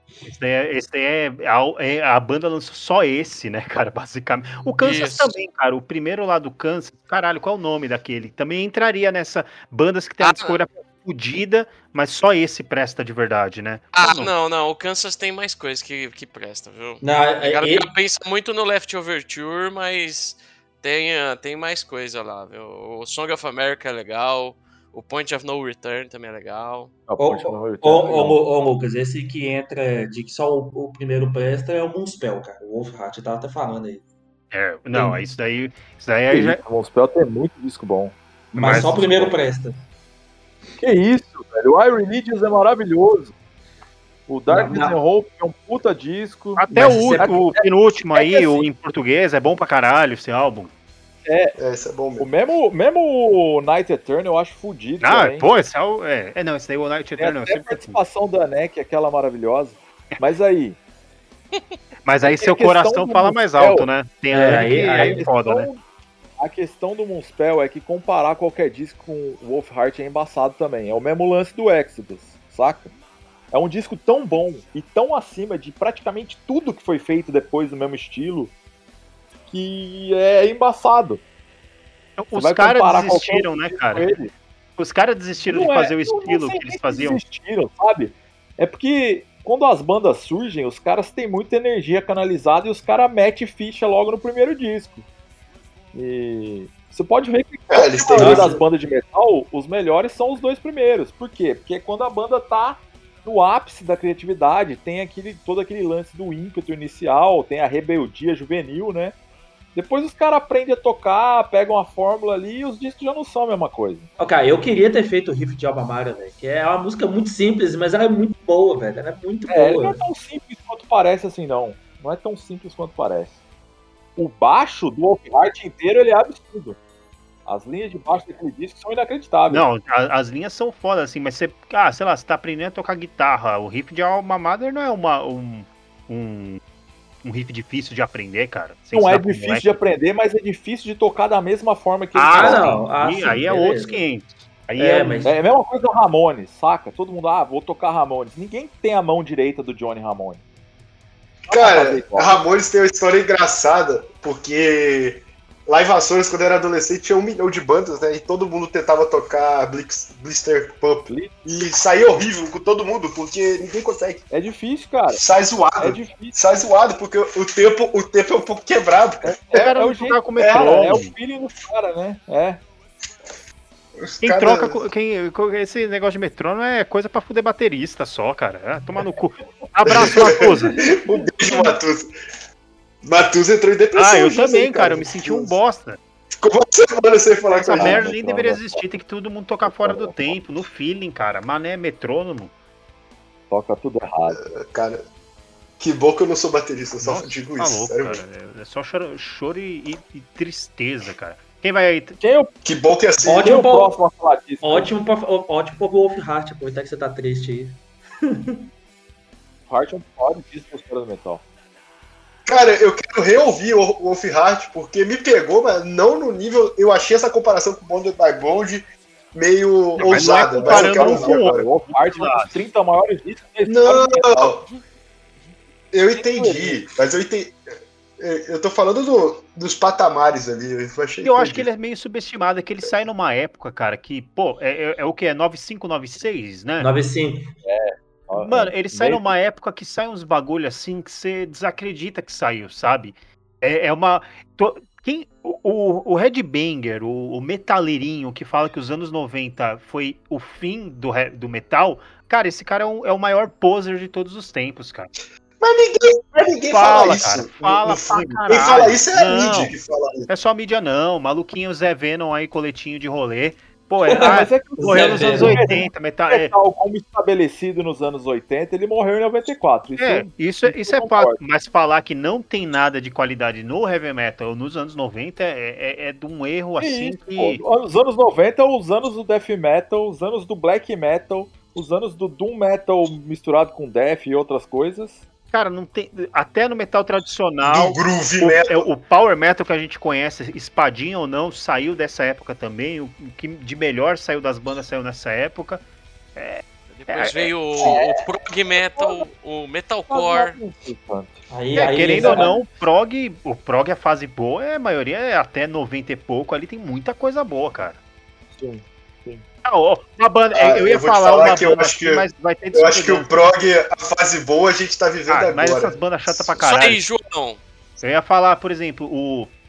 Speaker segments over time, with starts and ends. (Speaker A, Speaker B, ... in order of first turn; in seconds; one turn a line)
Speaker A: 0.2-14.3
Speaker B: 4.8-5.4
Speaker B: 10.2-10.6
Speaker B: 13.9-26.9
Speaker C: 17.0-17.9
Speaker D: 27.1-28.4
Speaker C: 27.2-34.0
Speaker A: 34.5-36.6
Speaker C: 34.9-35.2
Speaker D: 36.3-38.1
Speaker A: 38.5-39.3
Speaker C: 38.5-39.8
Speaker D: 40.8-43.3
Speaker D: 44.3-48.7
Speaker C: 44.5-45.0
Speaker A: 46.6-50.7
Speaker C: 46.7-47.3
Speaker D: 51.2-51.5
Speaker E: 51.6-52.3
Speaker D: 52.2-55.5
Speaker A: 55.0-58.0
Speaker D: 57.2-60.8
Speaker A: 62.0-65.7
Speaker D: 62.2-63.9
Speaker C: 64.3-65.2
Speaker D: 64.8-65.8
Speaker D: 66.4-72.9
Speaker D: 73.5-78.5
Speaker D: 79.5-81.2
Speaker A: 82.2-84.1
Speaker D: 82.3-84.3
Speaker A: 84.8-87.2
Speaker D: 85.5-95.0
Speaker D: 95.9-109.2
Speaker E: 97.7-98.6
Speaker C: 98.2-98.6
Speaker D: 109.7-114.1
Speaker C: 114.2-120.0
Speaker D: 119.5-123.3
Speaker D: 124.2-126.8
Speaker D: 127.5-129.7
Speaker A: 129.5-136.6
Speaker A: 137.2-139.8
Speaker D: 138.9-142.8
Speaker A: 142.1-145.3
Speaker C: 142.3-144.0
Speaker C: 144.8-145.3
Speaker D: 145.2-150.4
Speaker E: 151.4-164.2
Speaker D: 151.5-152.4
Speaker D: 161.0-161.3
Speaker D: 164.3-165.2
Speaker E: 165.1-169.7
Speaker D: 165.8-166.3
Speaker D: 169.2-172.6
Speaker A: 169.5-171.1
Speaker E: 170.4-171.1
Speaker E: 174.0-174.8
Speaker A: 174.2-180.8
Speaker E: 179.8-182.1
Speaker E: 183.0-185.6
Speaker A: 183.9-186.0
Speaker E: 186.3-188.0
Speaker A: 187.5-192.5
Speaker D: 187.7-188.8
Speaker D: 189.6-190.4
Speaker D: 193.5-194.4
Speaker E: 194.3-195.0
Speaker E: 195.8-198.2
Speaker A: 197.0-202.2
Speaker D: 202.2-202.5
Speaker E: 202.6-203.5
Speaker C: 203.2-204.0
Speaker D: 203.4-204.9
Speaker C: 204.6-208.6
Speaker D: 209.7-211.4
Speaker E: 212.4-221.7
Speaker A: 219.9-222.6
Speaker D: 220.6-224.7
Speaker E: 223.7-224.6
Speaker E: 225.9-227.6
Speaker D: 226.2-226.8
Speaker E: 228.2-231.7
Speaker A: 231.2-236.9
Speaker C: 236.8-237.5
Speaker D: 237.6-239.3
Speaker A: 238.4-255.1
Speaker E: 255.6-260.3
Speaker A: 256.7-259.7
Speaker A: 260.3-266.5
Speaker C: 264.1-265.6
Speaker D: 264.1-271.4
Speaker A: 270.0-277.6
Speaker D: 276.8-285.2
Speaker A: 285.5-295.8
Speaker E: 287.6-288.9
Speaker A: 296.3-297.5
Speaker B: 296.9-300.6
Speaker D: 297.8-298.2
Speaker D: 298.9-299.3
Speaker D: 300.1-302.6
Speaker C: 301.5-302.5
Speaker A: 301.7-308.0
Speaker D: 308.5-309.4
Speaker A: 309.6-313.4
Speaker E: 310.5-316.6
Speaker A: 315.3-317.0
Speaker B: 316.6-317.6
Speaker A: 318.0-319.5